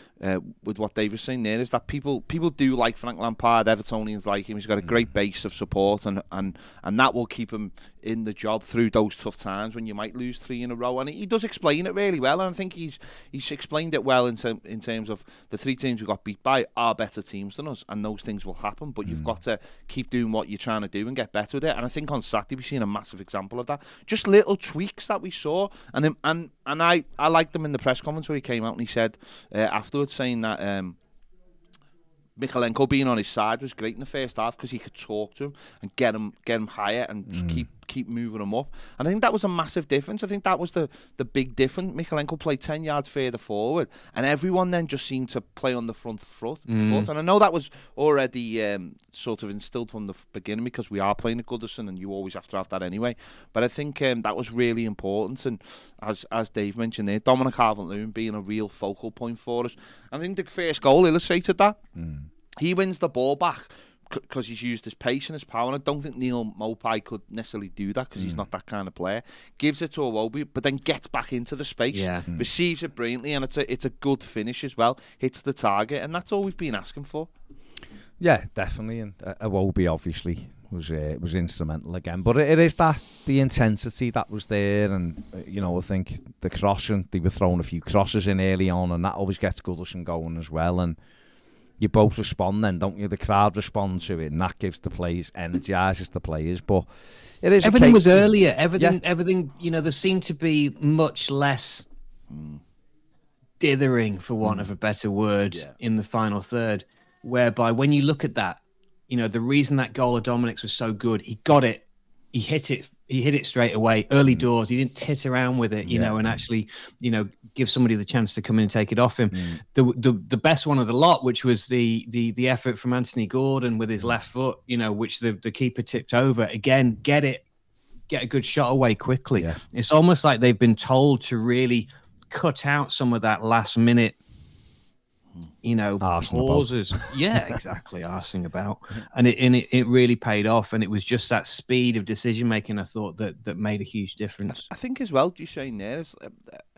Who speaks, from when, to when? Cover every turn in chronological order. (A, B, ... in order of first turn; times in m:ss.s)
0:00.2-0:31.0 A
0:19.1-0:19.3 B
0:32.4-1:01.8 A
0:37.3-0:37.6 B
0:46.7-0:47.1 C
1:02.0-1:02.3 B
1:02.6-1:17.3 A
1:11.9-1:12.3 C
1:18.2-1:31.0 B
1:31.8-1:36.9 B
1:37.4-1:39.0 B
1:37.6-1:41.9 C
1:42.3-1:42.6 A
1:43.6-2:07.5 C
1:55.9-1:56.4 B
1:59.3-1:59.6 B
2:08.1-2:14.2 C
2:15.6-2:24.7 C
2:16.0-2:17.0 B
2:24.5-2:26.6 A